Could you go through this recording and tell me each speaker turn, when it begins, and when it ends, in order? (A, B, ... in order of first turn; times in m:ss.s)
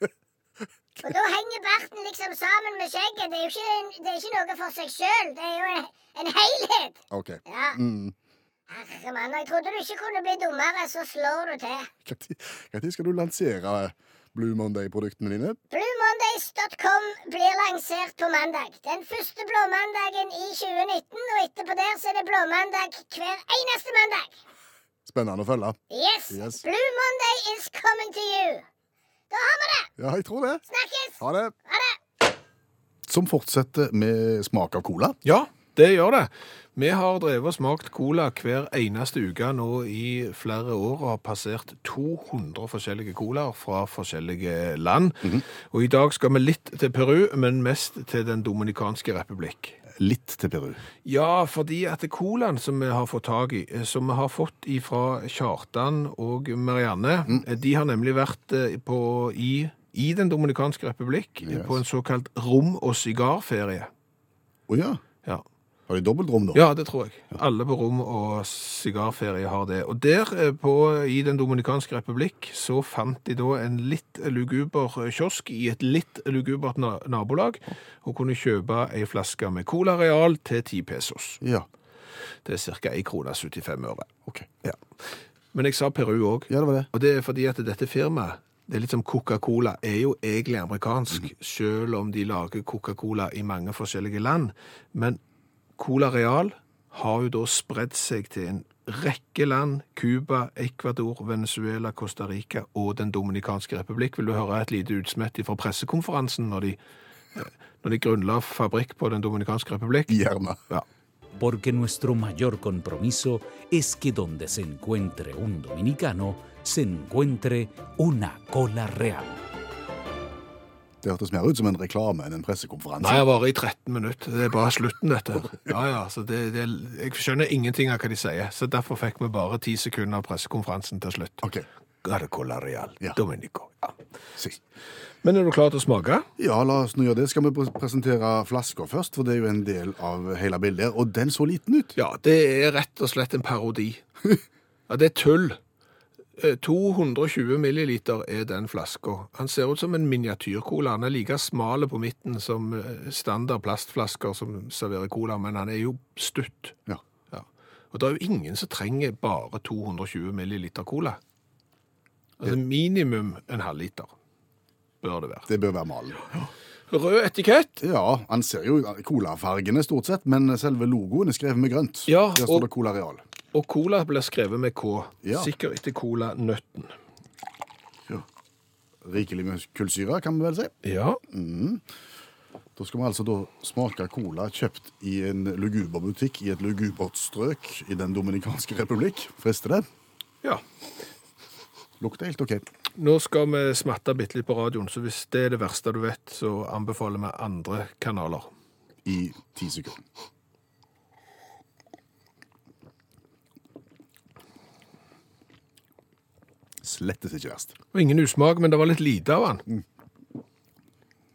0:01.0-0:07.8 A
0:07.1-0:08.2 B
0:08.7-0:11.9 A
0:12.0-0:15.6 B
0:15.7-0:24.3 A
0:25.0-0:25.8 B
0:25.9-0:28.6 A
0:26.3-0:26.6 B
0:29.3-0:29.9 A
0:30.0-0:30.6 B
0:30.7-0:32.0 A
0:31.2-0:31.5 B
0:33.1-0:35.2 B
0:35.2-0:49.8 C
0:50.0-0:50.8 B
0:51.0-1:03.9 C
1:01.4-1:01.8 B
1:04.7-1:05.0 B
1:05.9-1:06.6 B
1:06.5-1:21.4 C
1:21.4-1:21.7 B
1:22.4-1:24.1 C
1:25.5-1:35.2 C
1:26.5-1:26.9 B
1:35.8-1:46.8 C
1:47.4-1:50.1 C
1:50.1-1:50.6 B
1:51.4-1:59.4 D
2:01.0-2:03.2 B
2:03.0-2:11.4 C
2:12.0-2:14.0 C
2:15.2-2:16.3 C
2:16.4-2:22.0 B
2:22.0-2:24.0 C
2:24.9-2:25.6 C
2:26.4-2:36.8 C
2:37.3-2:41.2 C
2:42.4-2:44.1 C
2:45.0-2:45.5 C
2:45.5-2:46.5 B
2:46.9-2:47.8 C
2:47.8-2:53.2 B
2:52.1-2:52.7 C
2:53.5-2:57.0 C
2:55.2-2:55.5 B
2:59.0-3:00.7 B
3:00.8-3:01.2 C
3:01.3-3:01.8 B
3:02.8-3:09.9 B
3:12.0-3:12.6 B
3:13.0-3:18.5 C
3:19.0-3:20.0 B
3:26.8-3:27.8 B
3:27.9-3:29.6 C